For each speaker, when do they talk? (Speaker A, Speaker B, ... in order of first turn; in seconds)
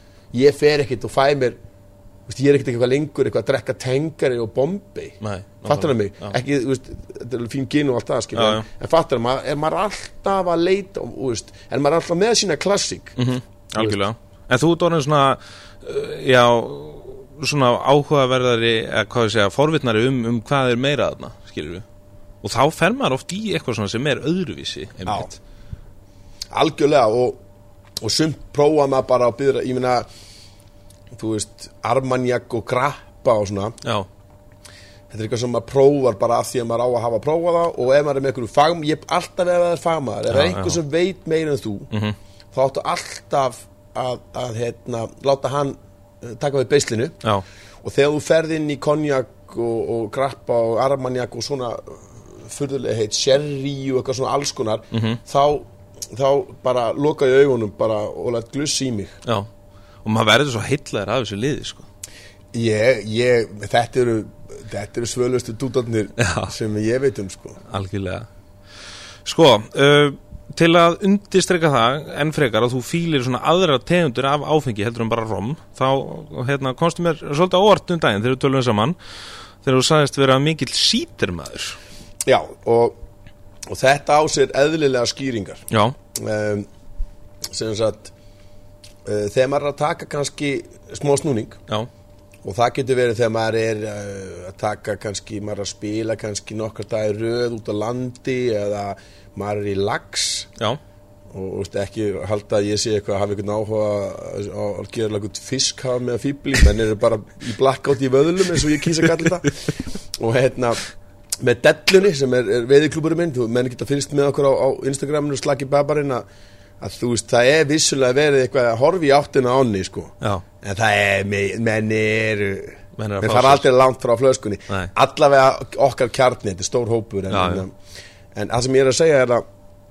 Speaker A: 0.3-1.6, 2.3-13.2, 26.5-27.4, 28.0-30.1, 31.1-33.8, 35.1-41.9, 42.5-47.2, 47.8-59.2, 62.5-67.6, 82.2-83.0, 83.7-86.7, 87.5-88.1, 89.0-91.6, 92.4-100.5, 101.3-110.8, 111.4-116.2, 116.8-127.7, 128.3-129.4
Speaker B: 5.2-6.4, 8.3-8.7, 13.2-21.9, 22.4-25.4, 33.8-34.1, 40.3-40.8, 54.9-55.2, 59.2-59.5, 60.0-61.9, 66.2-66.5, 67.6-68.3, 69.2-79.0, 79.6-81.8, 85.7-86.0, 123.0-123.7, 127.3-127.7